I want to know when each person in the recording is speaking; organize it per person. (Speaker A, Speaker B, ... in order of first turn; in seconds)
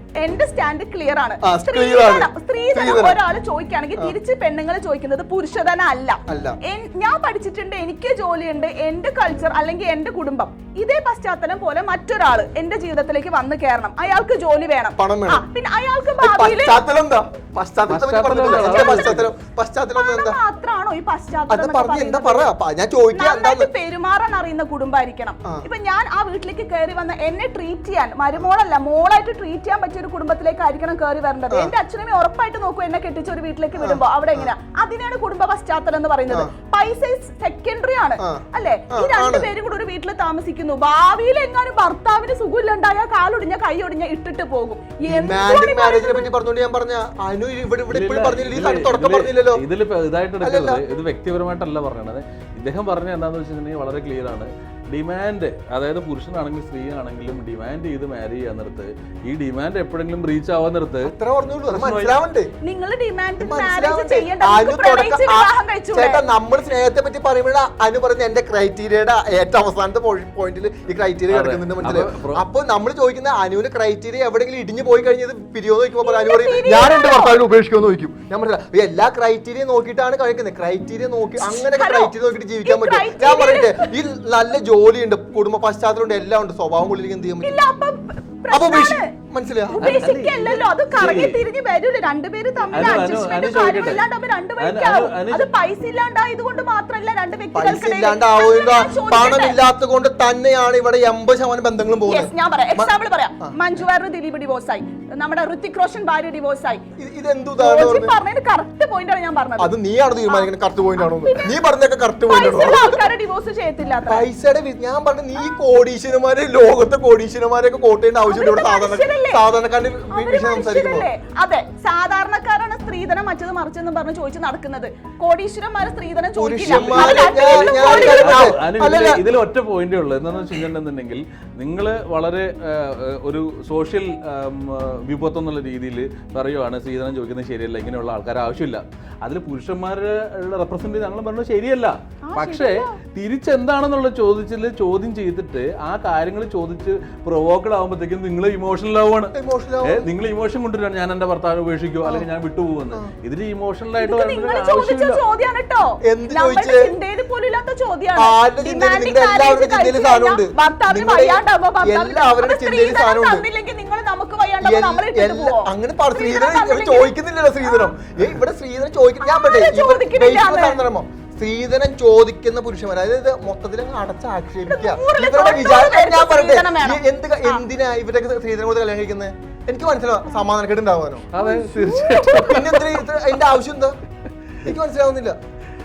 Speaker A: 0.2-16.8, 18.5-18.8, 19.9-22.5, 23.1-46.3, 62.6-66.2, 76.0-77.3, 81.4-83.9, 87.4-89.0, 89.7-99.6, 102.1-106.8, 107.6-109.7, 110.3-111.5, 112.3-114.2, 118.3-119.4, 120.1-128.5, 142.3-142.9, 154.0-167.9, 169.2-170.8, 174.7-177.6, 181.3-182.6
Speaker B: 1.4-3.2, 6.3-6.6, 15.0-15.4, 16.2-20.4, 21.5-23.7, 33.8-34.5, 38.2-39.5, 45.1-49.6, 50.4-50.8, 61.0-62.5, 63.4-87.6, 88.5-89.9, 97.5-102.9, 107.0-108.1, 109.6-113.0, 114.1-121.1, 126.4-129.2, 149.3-150.1, 156.0-156.9, 158.2-163.4, 164.6-181.3, 182.3-183.9, 184.6-185.3
Speaker C: 17.9-19.3, 47.9-61.1, 61.7-62.1, 71.3-72.4, 89.8-91.3, 92.7-94.0, 94.6-95.5, 126.6-149.3, 149.8-155.2, 181.3-182.9